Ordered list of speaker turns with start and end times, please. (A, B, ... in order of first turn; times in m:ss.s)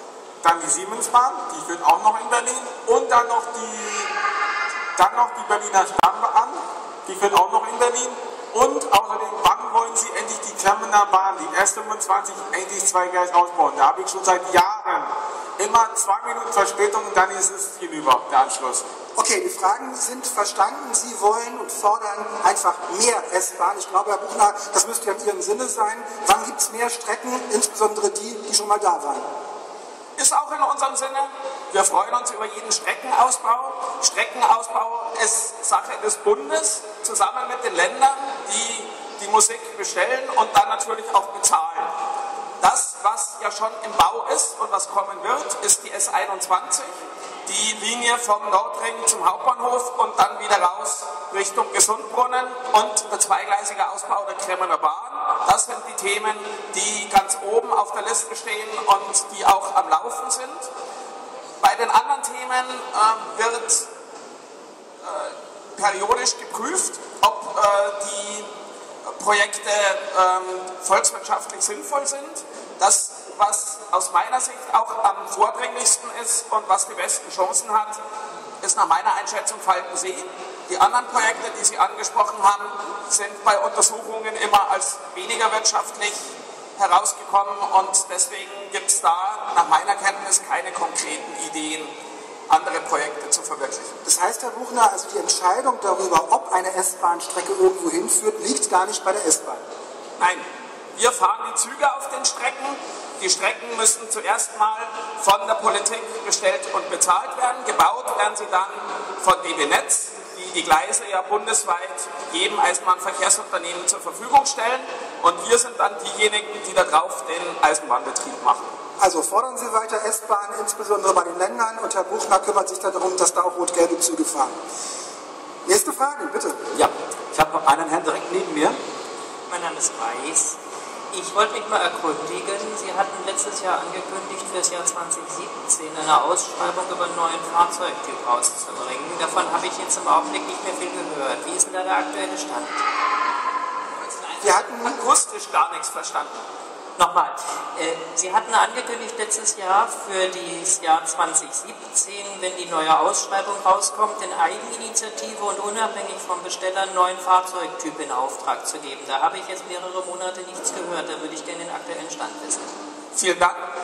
0:00.4-0:04.1 A
0:05.0-0:18.8 A
0:19.2-0:29.2 B
0:30.2-0:41.9 C
0:42.6-0:46.9 C
0:47.4-1:00.7 C
1:01.6-1:03.9 C
1:05.0-1:08.5 C
1:09.0-1:18.0 C
1:18.6-1:26.2 C
1:26.8-1:31.9 C
1:32.5-1:33.9 C
1:34.0-1:39.6 B
1:40.2-1:58.7 C
1:59.0-2:04.6 B
2:05.6-2:06.6 B
2:06.7-2:08.8 D
2:09.5-2:10.6 E
2:11.1-2:22.8 E
2:24.0-2:26.4 C
2:24.4-2:25.0 B
2:27.0-2:42.7 E
2:43.1-2:43.6 C